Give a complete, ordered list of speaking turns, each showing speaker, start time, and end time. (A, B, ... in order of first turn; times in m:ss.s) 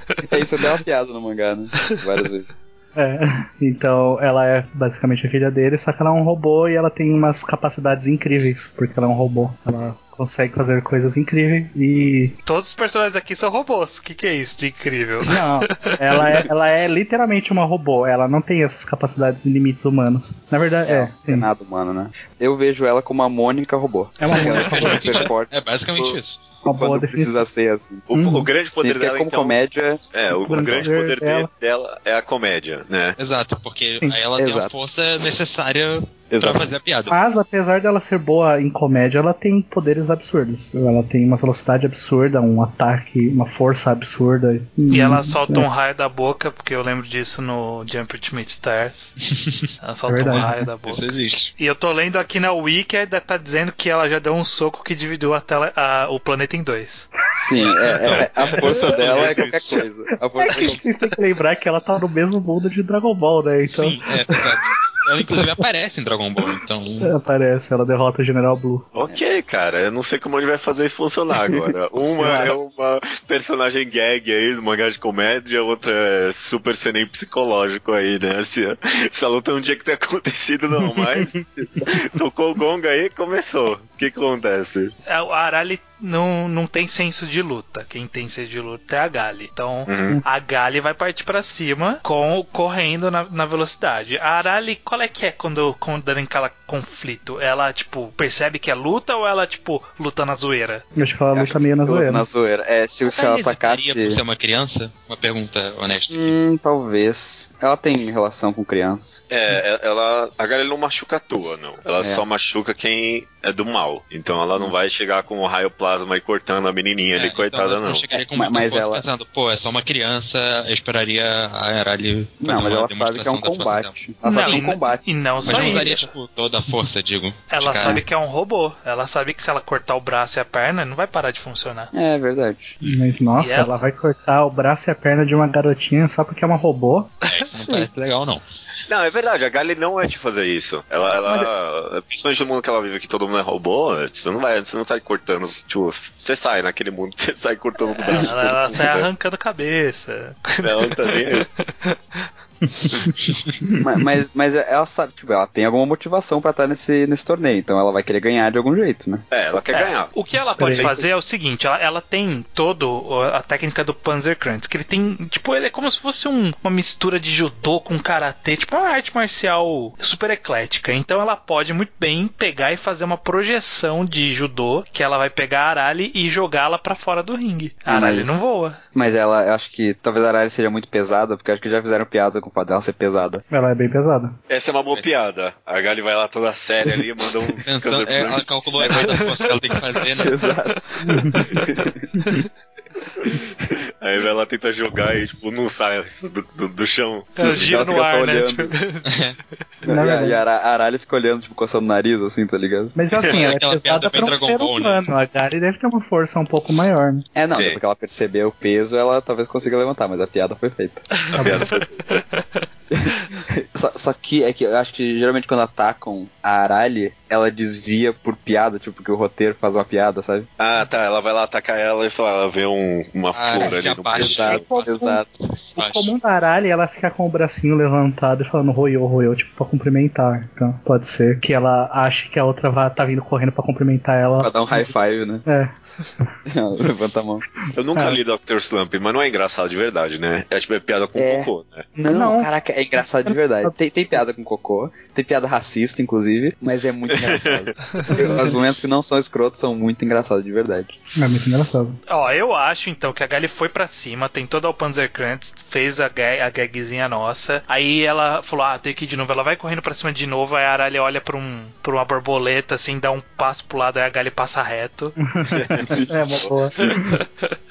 0:00.3-0:02.5 A
0:03.0-0:12.4 B
0:12.4-0:16.3 C
0:15.2-0:21.5 B
0:20.8-0:28.1 A
0:24.2-0:25.3 B
0:24.3-0:26.4 D
0:26.6-0:27.4 B
0:28.1-0:29.6 E
0:28.1-0:28.5 B
0:28.8-0:30.0 A
0:30.1-0:33.2 E
0:30.5-0:31.5 B
0:33.2-0:37.2 D
0:34.4-0:34.9 A
0:36.3-0:36.7 A
0:37.1-0:45.7 B
0:44.9-0:49.1 C
0:49.8-0:57.1 C
0:50.1-0:50.6 B
0:50.9-0:51.5 D
0:57.3-1:00.8 A
0:57.8-0:59.8 D
1:00.4-1:04.4 B
1:03.6-1:07.1 D
1:07.0-1:08.8 B
1:08.9-1:24.9 E
1:12.2-1:12.5 B
1:21.3-1:21.9 B
1:25.0-1:40.8 C
1:29.8-1:30.2 E
1:41.0-1:42.2 B
1:41.3-1:44.2 A
1:43.1-1:46.4 D
1:46.1-1:49.2 A
1:49.3-1:58.0 E
1:52.0-1:52.2 A
1:57.1-2:04.0 D
1:58.1-1:59.0 A
2:02.4-2:05.9 A
2:04.2-2:06.1 C
2:04.3-2:04.6 B
2:05.4-2:08.0 D
2:07.5-2:11.9 C
2:11.9-2:12.8 A
2:12.8-2:17.1 B
2:13.4-2:13.7 C
2:17.3-2:18.4 D
2:18.9-2:29.1 E
2:21.2-2:21.5 A
2:27.9-2:32.3 C
2:28.3-2:28.8 A
2:30.6-2:31.5 E
2:32.7-2:33.8 B
2:33.8-2:39.2 A
2:39.3-2:40.1 E
2:39.7-2:58.8 C
2:40.6-2:40.9 B
2:40.7-2:41.0 E
2:57.9-2:58.4 A
2:58.9-3:03.4 A
3:03.5-3:04.3 B
3:04.5-3:08.4 E
3:07.6-3:10.4 D
3:08.8-3:09.2 A
3:08.9-3:09.6 C
3:10.2-3:10.8 A
3:11.0-3:11.6 B
3:11.5-3:12.1 A
3:12.2-3:12.4 B
3:14.0-3:17.8 E
3:17.4-3:18.7 A
3:17.4-3:19.2 C
3:19.1-3:19.4 D
3:19.8-3:22.9 A
3:19.9-3:20.4 B
3:22.9-3:27.2 B
3:23.3-3:25.0 D
3:27.3-3:31.0 A
3:31.2-3:32.6 C
3:31.3-3:31.9 E
3:31.4-3:31.7 B
3:32.9-3:40.5 A
3:40.6-3:44.6 E
3:43.3-3:46.1 D
3:43.6-3:45.2 A
3:44.7-3:45.2 B
3:45.8-3:54.9 B
3:54.4-3:55.4 A
3:55.4-3:56.3 B
3:56.5-3:57.4 A
3:57.7-4:01.9 E
3:57.9-3:58.2 B
4:01.2-4:11.0 A
4:02.1-4:02.5 B
4:03.2-4:03.7 B
4:07.1-4:07.7 E
4:08.1-4:08.5 B
4:11.2-4:12.0 B
4:12.1-4:25.2 C
4:25.2-4:27.2 B
4:25.5-4:26.9 E
4:25.8-4:26.4 A
4:27.0-4:27.5 C